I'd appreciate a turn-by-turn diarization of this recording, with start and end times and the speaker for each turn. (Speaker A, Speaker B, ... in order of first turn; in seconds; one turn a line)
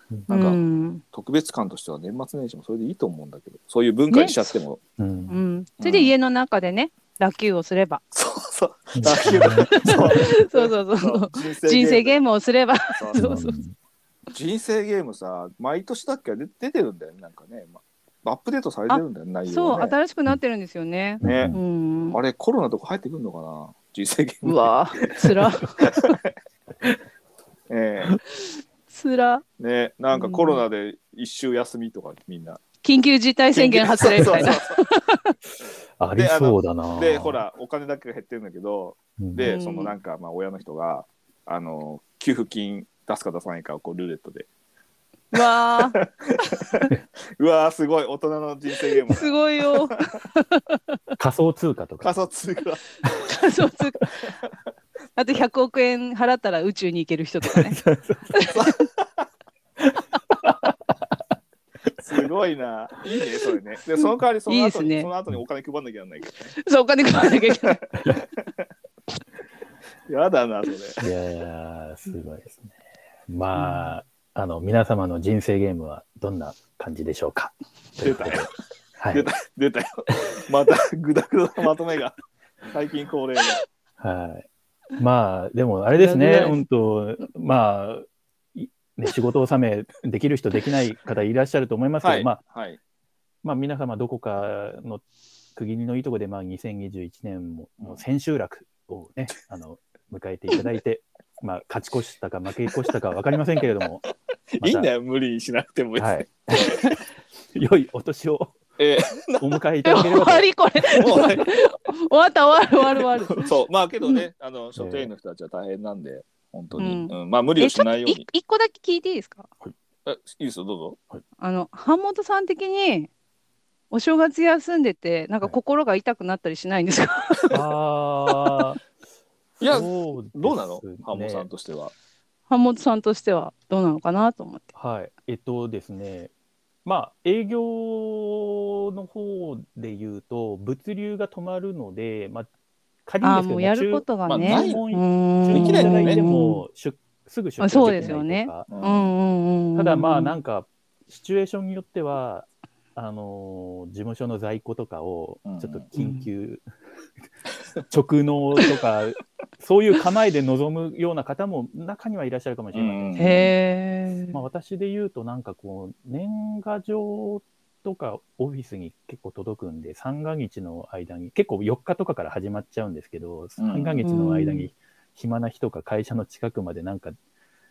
Speaker A: 0.3-0.6
Speaker B: 0.3-1.0
Speaker A: 1.1-4.8
Speaker B: 4.1-4.5
Speaker C: 5.0-5.4
Speaker B: 5.3-8.0
Speaker A: 5.8-6.1
Speaker A: 8.1-12.2
Speaker C: 9.0-10.1
Speaker B: 9.1-13.6
Speaker A: 12.9-13.2
Speaker C: 13.2-13.7
Speaker A: 14.3-20.0
Speaker B: 18.9-22.2
Speaker C: 21.2-21.6
Speaker A: 21.2-21.6
Speaker A: 22.1-26.3
Speaker B: 24.4-25.9
Speaker A: 27.7-28.1
Speaker B: 28.9-29.4
Speaker A: 29.6-32.6
Speaker B: 30.1-30.6
Speaker B: 32.8-35.3
Speaker A: 33.5-34.8
Speaker C: 36.0-37.4
Speaker A: 36.2-44.5
Speaker C: 39.2-39.5
Speaker B: 39.4-39.9
Speaker B: 45.3-46.0
Speaker A: 45.4-49.9
Speaker B: 49.1-51.0
Speaker C: 51.2-52.2
Speaker A: 52.0-52.9
Speaker B: 53.1-54.1
Speaker B: 55.2-57.8
Speaker C: 57.6-58.3
Speaker B: 58.3-58.8
Speaker A: 58.4-59.3
Speaker C: 60.5-60.7
Speaker A: 62.0-66.5
Speaker B: 64.5-65.1
Speaker B: 66.6-67.8
Speaker A: 67.5-68.6
Speaker A: 70.1-71.0
Speaker C: 71.0-72.8
Speaker C: 73.3-79.3
Speaker B: 73.5-74.0
Speaker A: 78.0-78.5
Speaker A: 79.1-82.2
Speaker A: 82.7-83.6
Speaker C: 84.0-92.4
Speaker B: 86.0-86.6
Speaker A: 92.0-92.8
Speaker C: 93.4-95.0
Speaker C: 95.6-104.1
Speaker A: 104.5-106.8
Speaker C: 104.6-104.9
Speaker C: 106.0-106.9
Speaker B: 106.7-107.0
Speaker C: 107.5-108.6
Speaker A: 108.8-109.6
Speaker C: 109.3-110.5
Speaker B: 109.8-113.5
Speaker A: 110.9-111.5
Speaker A: 113.3-118.3
Speaker C: 114.8-115.1
Speaker B: 116.8-119.5
Speaker A: 120.1-121.0
Speaker B: 121.4-123.1
Speaker B: 123.9-127.6
Speaker C: 127.5-128.8
Speaker C: 129.6-131.5
Speaker A: 129.6-131.9
Speaker B: 132.5-134.7
Speaker C: 134.8-136.3
Speaker C: 136.8-142.5
Speaker C: 143.1-148.7
Speaker B: 143.2-146.6
Speaker A: 144.3-144.8
Speaker A: 145.5-146.3
Speaker B: 147.6-150.3
Speaker A: 148.7-149.1
Speaker C: 149.8-156.6
Speaker A: 155.5-155.9
Speaker B: 156.0-156.3
Speaker C: 157.9-163.5
Speaker A: 162.7-163.4
Speaker B: 163.2-164.4
Speaker C: 164.3-177.2
Speaker A: 173.6-174.1
Speaker B: 174.0-174.7